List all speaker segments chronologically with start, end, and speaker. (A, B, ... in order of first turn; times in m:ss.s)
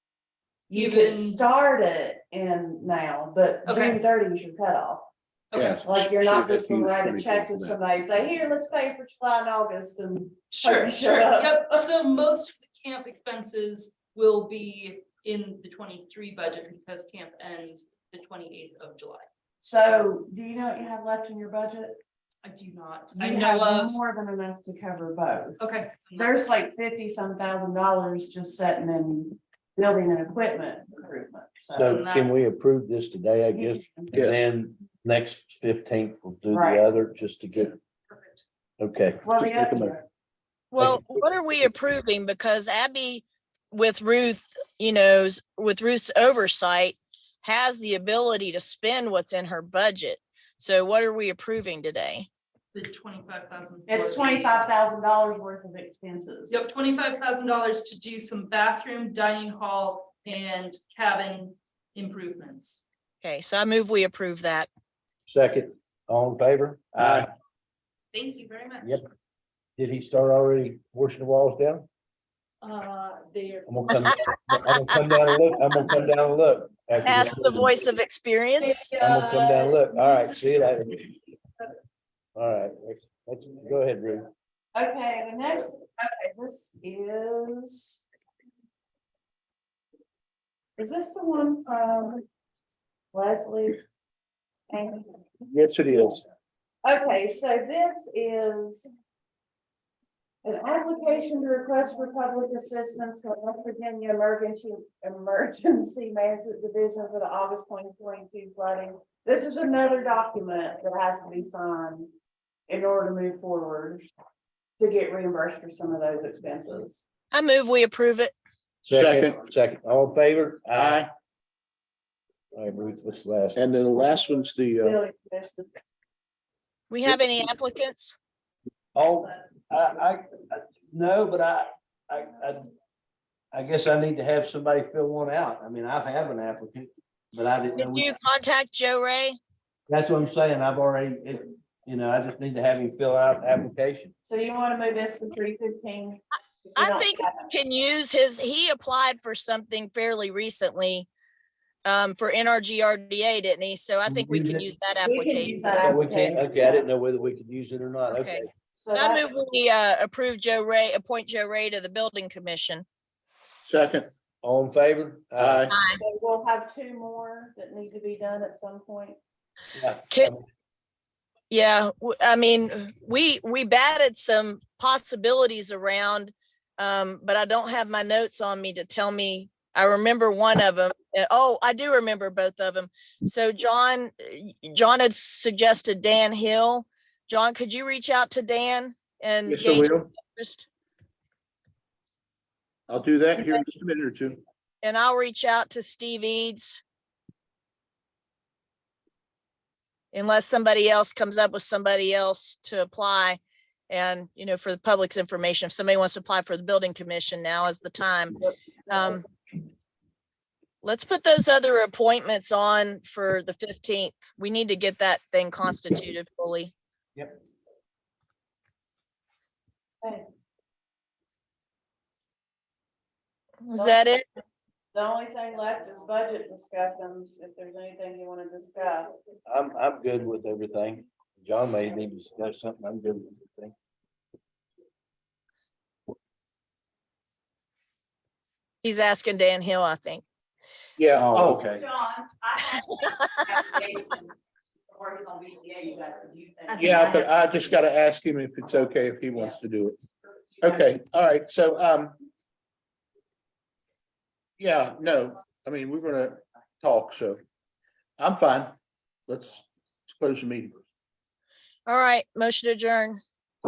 0:00.7-0:05.1 A
0:00.7-0:01.4 B
0:03.6-0:04.0 B
0:05.5-0:05.8 B
0:05.5-0:07.8 C
0:05.8-0:11.8 A
0:10.5-0:19.2 B
0:19.6-0:22.0 A
0:22.4-0:24.0 B
0:23.1-0:32.0 A
0:25.6-0:26.6 B
0:31.7-0:37.8 D
0:31.8-0:32.3 B
0:33.5-0:34.1 A
0:34.1-0:34.4 C
0:36.5-0:36.8 A
0:38.1-0:38.4 B
0:38.8-0:39.9 D
0:39.2-0:40.0 A
0:40.7-0:52.3 E
0:40.8-0:41.0 D
0:52.7-0:54.6 B
0:53.9-0:56.6 A
0:56.5-1:02.8 B
1:03.2-1:04.7 E
1:05.3-1:07.3 D
1:07.0-1:07.3 C
1:08.1-1:09.0 B
1:09.8-1:11.9 D
1:12.6-1:14.1 B
1:13.6-1:17.7 D
1:17.0-1:18.9 E
1:18.6-1:20.5 B
1:19.0-1:21.1 D
1:22.3-1:24.3 D
1:24.7-1:28.0 A
1:30.8-1:32.2 A
1:33.1-1:33.8 A
1:34.7-1:35.2 A
1:35.5-1:36.2 C
1:36.8-1:38.9 A
1:40.4-1:52.1 A
1:52.7-1:54.1 A
1:54.8-1:57.0 A
1:57.3-1:58.3 E
1:58.8-2:01.1 D
1:58.9-1:59.4 C
2:00.7-2:01.1 C
2:02.5-2:03.6 D
2:03.5-2:05.0 C
2:04.8-2:05.7 A
2:06.9-2:08.1 E
2:08.9-2:12.7 D
2:13.5-2:18.1 D
2:17.8-2:19.4 E
2:19.9-2:24.1 D
2:24.2-2:27.5 A
2:26.8-2:31.1 E
2:31.8-2:35.8 E
2:34.0-2:34.7 D
2:35.0-2:36.8 A
2:35.8-2:38.5 D
2:38.1-2:42.8 E
2:38.7-2:39.2 A
2:43.6-2:44.1 C
2:44.4-2:45.7 D
2:45.4-2:45.8 C
2:45.7-2:46.0 E
2:46.0-2:49.2 A
2:49.7-2:50.4 D
2:51.5-3:10.7 E
3:09.4-3:10.1 C
3:12.9-3:14.4 C
3:14.8-3:16.8 E
3:20.1-3:29.2 E
3:30.8-3:36.7 E
3:43.6-3:44.2 E
3:44.9-3:49.1 A
3:49.5-3:53.7 D
3:58.8-4:00.2 E
4:01.0-4:01.8 C
4:01.1-4:01.8 D
4:02.7-4:03.8 E
4:05.2-4:06.3 A
4:06.7-4:10.0 C
4:10.6-4:12.2 C
4:14.6-4:17.4 C
4:18.2-4:18.7 C
4:19.3-4:20.8 C
4:21.8-4:23.2 E